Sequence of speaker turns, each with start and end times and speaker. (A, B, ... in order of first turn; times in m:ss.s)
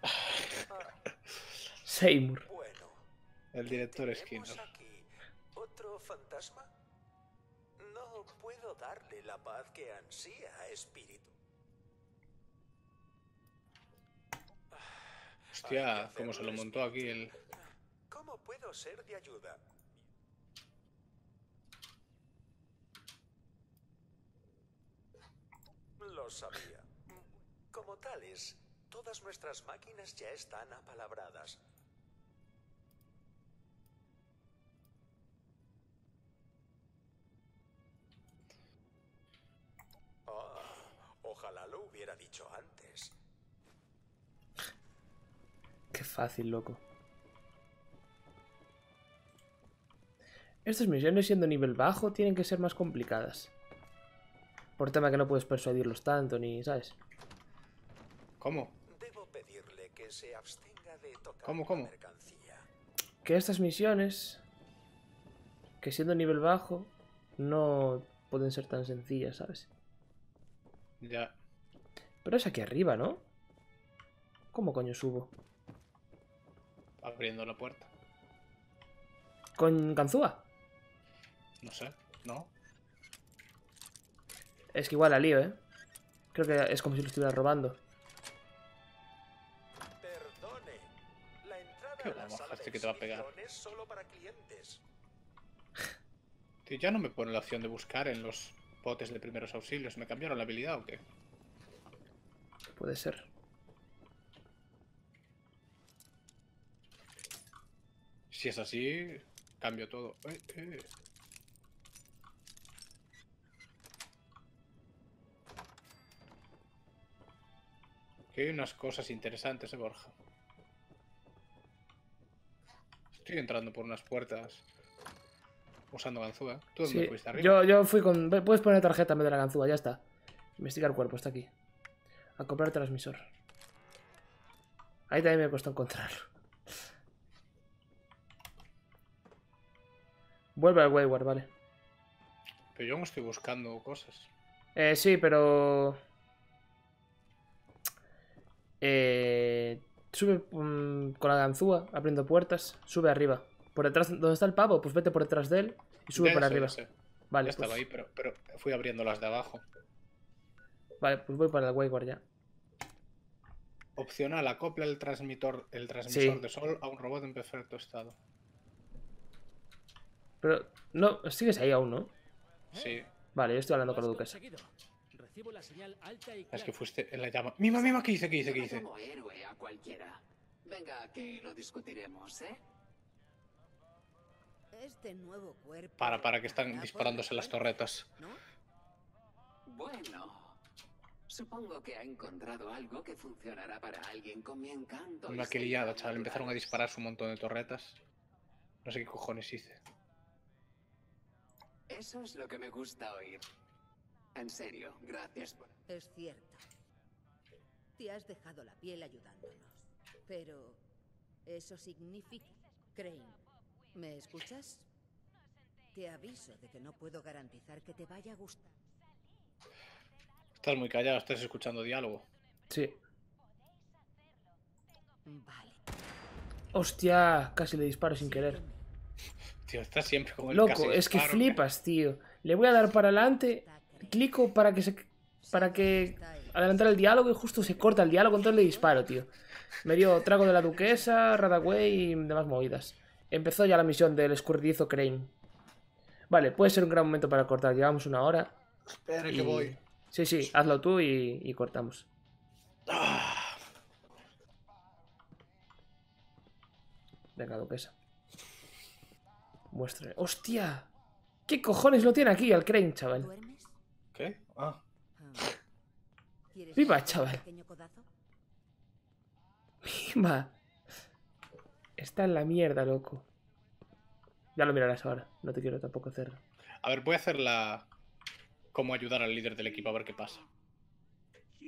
0:01.8-0:02.5 A
0:02.4-0:03.0 B
0:03.5-0:04.7 C
0:03.6-0:06.7 B
0:07.8-0:11.3 B
0:14.7-0:17.5 B
0:15.5-0:17.3 C
0:18.1-0:19.6 B
0:26.0-0:27.0 B
0:27.7-0:31.6 B
0:40.2-0:43.1 B
0:45.9-0:46.8 A
0:50.6-0:53.5 A
0:54.8-0:57.0 A
0:58.4-0:58.8 C
0:58.8-1:02.6 B
1:01.4-1:01.9 C
1:03.2-1:04.4 A
1:05.8-1:09.7 A
1:11.0-1:11.3 C
1:12.2-1:13.2 A
1:14.5-1:15.3 A
1:17.0-1:17.9 C
1:19.6-1:20.4 A
1:21.6-1:22.5 C
1:24.7-1:25.6 A
1:26.3-1:27.8 A
1:30.0-1:30.9 B
1:31.4-1:34.8 B
1:32.0-1:33.3 C
1:36.6-1:41.0 C
1:42.7-1:43.3 A
1:48.3-1:50.9 C
1:58.3-2:00.2 C
2:03.1-2:04.6 C
2:05.9-2:07.5 C
2:06.8-2:10.0 A
2:10.6-2:11.5 A
2:12.4-2:13.3 A
2:15.1-2:16.3 A
2:20.6-2:21.5 A
2:22.7-2:24.3 C
2:24.8-2:26.0 A
2:28.8-2:36.8 A
2:36.1-2:36.9 C
2:37.3-2:37.8 A
2:37.4-2:39.6 C
2:41.0-2:42.2 A
2:44.0-2:48.2 C
2:46.1-2:46.4 A
2:50.4-2:52.1 A
2:52.7-2:53.0 C
2:52.7-2:53.1 D
2:53.3-2:54.4 A
2:53.8-2:56.7 D
2:56.5-2:58.8 C
2:57.7-3:02.6 E
3:04.7-3:07.6 F
3:06.0-3:08.1 C
3:08.2-3:08.4 F
3:09.6-3:10.6 E
3:11.3-3:16.7 E
3:15.3-3:18.0 C
3:18.8-3:19.8 C
3:21.9-3:23.4 E
3:24.3-3:25.7 E
3:25.9-3:26.6 F
3:28.0-3:30.8 F
3:31.4-3:34.9 F
3:35.9-3:38.7 F
3:40.6-3:42.3 C
3:42.7-3:43.0 A
3:45.2-3:45.8 F
3:46.7-3:48.6 A
3:48.2-3:48.8 F
3:49.6-3:51.6 C
3:50.5-3:59.3 A
3:53.5-3:54.2 F
3:55.4-3:56.6 F
3:58.6-3:58.9 F
3:59.8-4:05.3 A
4:06.3-4:08.6 A
4:08.8-4:09.8 C
4:09.3-4:12.1 A
4:12.9-4:13.6 C
4:17.4-4:17.9 A
4:19.7-4:20.9 A
4:21.5-4:23.3 A
4:23.1-4:23.8 F
4:24.1-4:24.8 C
4:25.2-4:25.6 F
4:26.5-4:28.1 F
4:26.8-4:27.4 A
4:29.8-4:30.5 A
4:32.0-4:33.3 A
4:34.6-4:36.4 A
4:36.8-4:37.9 C
4:38.7-4:40.4 C